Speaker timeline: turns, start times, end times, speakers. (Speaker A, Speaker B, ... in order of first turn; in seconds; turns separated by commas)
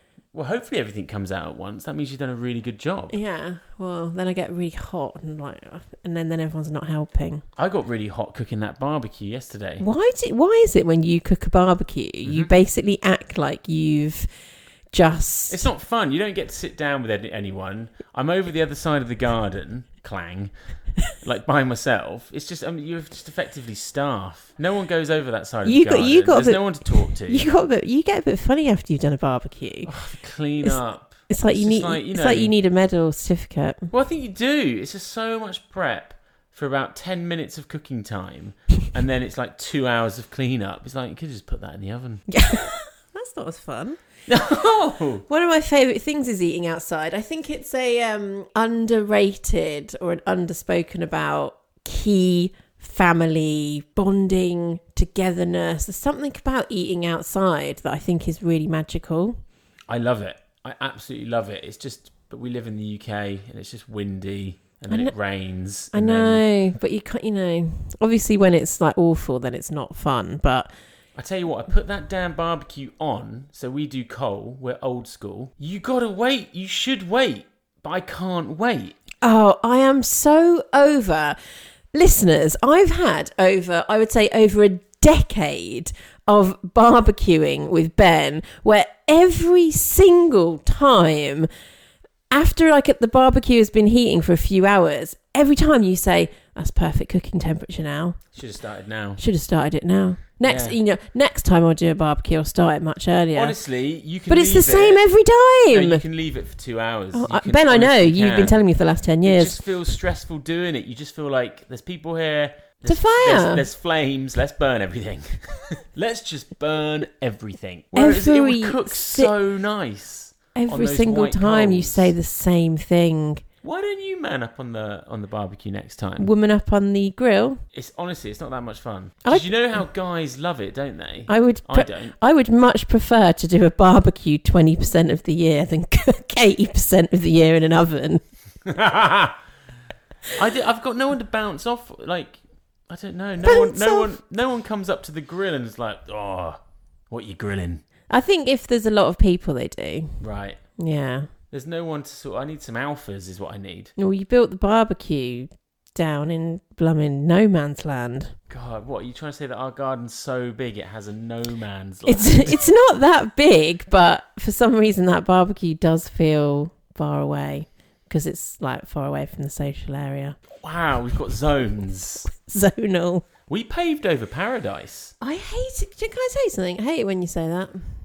Speaker A: 0.3-3.2, Speaker B: 3.1-7.4, Speaker A: 7.6-9.8, Speaker B: 9.8-14.3, Speaker A: 12.2-12.5, Speaker B: 14.9-15.6, Speaker A: 15.5-20.5, Speaker A: 21.2-27.5, Speaker B: 25.6-29.9, Speaker A: 29.9-32.5, Speaker B: 31.3-33.9, Speaker A: 33.9-42.2, Speaker B: 42.3-44.0, Speaker A: 44.3-45.2, Speaker B: 45.3-59.4, Speaker A: 59.9-66.4, Speaker B: 65.9-70.7, Speaker A: 71.2-79.0, Speaker B: 79.2-81.3, Speaker B: 81.9-91.5, Speaker B: 92.3-98.2, Speaker A: 98.3-99.2, Speaker B: 99.2-103.5, Speaker A: 100.4-100.8, Speaker A: 103.3-105.0, Speaker B: 104.3-106.0, Speaker A: 105.7-108.6, Speaker B: 107.1-109.6, Speaker A: 109.2-122.1, Speaker B: 112.8-113.6, Speaker B: 117.9-119.3, Speaker B: 120.5-123.4, Speaker A: 123.6-126.3, Speaker B: 126.2-127.6, Speaker A: 127.7-132.1, Speaker B: 131.3-138.2, Speaker A: 138.6-139.4, Speaker A: 140.3-147.8, Speaker B: 143.4-144.1, Speaker B: 148.1-150.2, Speaker A: 150.2-150.6, Speaker B: 150.8-151.3, Speaker A: 151.5-153.9, Speaker B: 154.0-158.3, Speaker A: 158.5-162.6, Speaker B: 162.1-170.4, Speaker A: 170.6-172.3, Speaker B: 172.3-173.2, Speaker A: 173.5-175.1, Speaker B: 175.2-177.8